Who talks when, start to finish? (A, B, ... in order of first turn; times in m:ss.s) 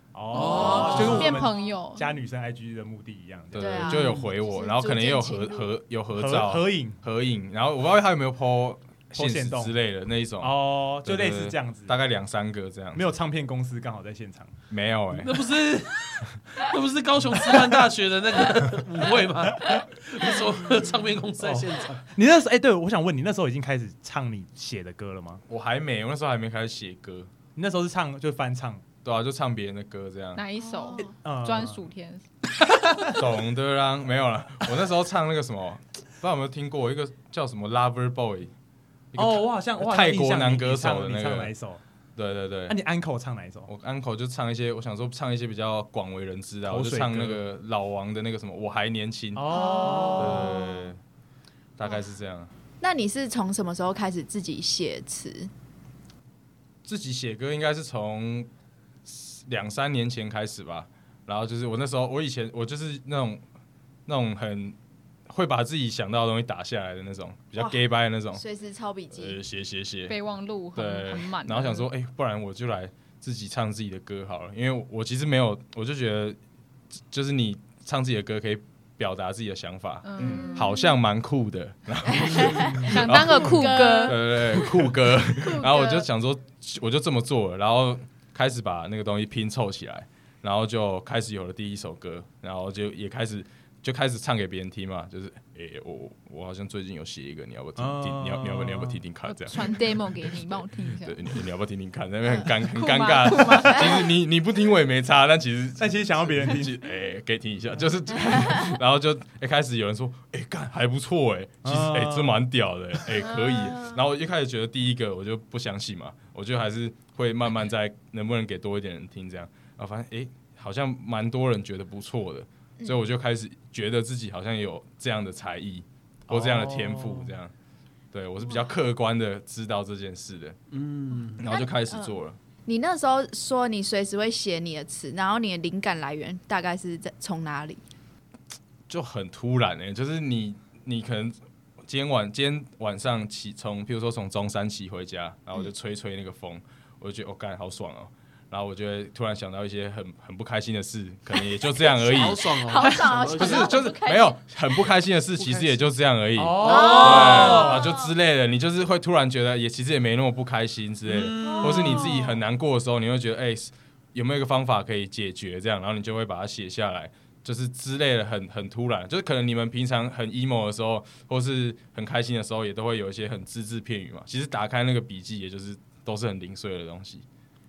0:00.1-0:04.0 A
0:00.3-0:01.3 B
0:00.4-0:02.1 C
0:00.5-0:01.4 D
0:00.8-0:01.1 E
0:03.5-0:13.1 E
0:03.6-0:05.7 D
0:06.1-0:07.0 A
0:09.1-0:09.8 A
0:10.4-0:12.0 A
0:12.9-0:14.5 A
0:14.7-0:15.4 E
0:15.1-0:22.0 B
0:21.4-0:25.4 A
0:25.5-0:27.3 E
0:27.6-0:28.8 A
0:29.0-0:30.4 E
0:30.4-0:32.2 C
0:30.6-0:31.1 D
0:31.0-0:31.8 A
0:32.9-0:33.2 A
0:33.1-0:38.5 E
0:39.1-0:41.5 E
0:39.1-0:41.8 A
0:42.2-0:42.8 E
0:42.7-0:43.7 A
0:43.6-0:49.6 E
0:46.6-0:47.4 A
0:49.3-0:50.7 A
0:49.5-0:50.7 D
0:50.1-0:51.0 E
0:51.8-0:52.5 E
0:52.8-0:55.5 D
0:56.8-0:58.5 E
0:59.0-1:03.4 E
1:04.1-1:04.8 E
1:05.3-1:08.4 E
1:07.6-1:07.8 D
1:08.3-1:09.4 D
1:09.1-1:10.1 E
1:10.1-1:11.9 C
1:10.7-1:16.4 E
1:17.1-1:39.7 E
1:20.0-1:20.9 C
1:20.4-1:20.7 D
1:22.1-1:26.1 D
1:22.8-1:24.2 C
1:37.8-1:39.0 A
1:39.2-1:41.2 C
1:41.0-2:07.5 E
1:42.6-1:44.1 C
1:43.6-1:44.0 D
1:45.8-1:46.8 A
1:51.6-1:52.4 A
1:53.2-1:54.0 D
2:06.3-2:07.3 A
2:08.1-2:10.6 E
2:08.4-2:08.7 D
2:10.7-2:11.4 B
2:11.4-2:12.4 E
2:11.4-2:17.8 D
2:18.9-2:32.5 E
2:31.8-2:34.4 D
2:31.9-2:33.7 B
2:33.4-2:57.2 E
2:36.3-2:37.6 A
2:36.5-2:37.8 B
2:36.6-2:38.1 D
2:41.0-2:42.2 B
2:41.4-2:42.4 D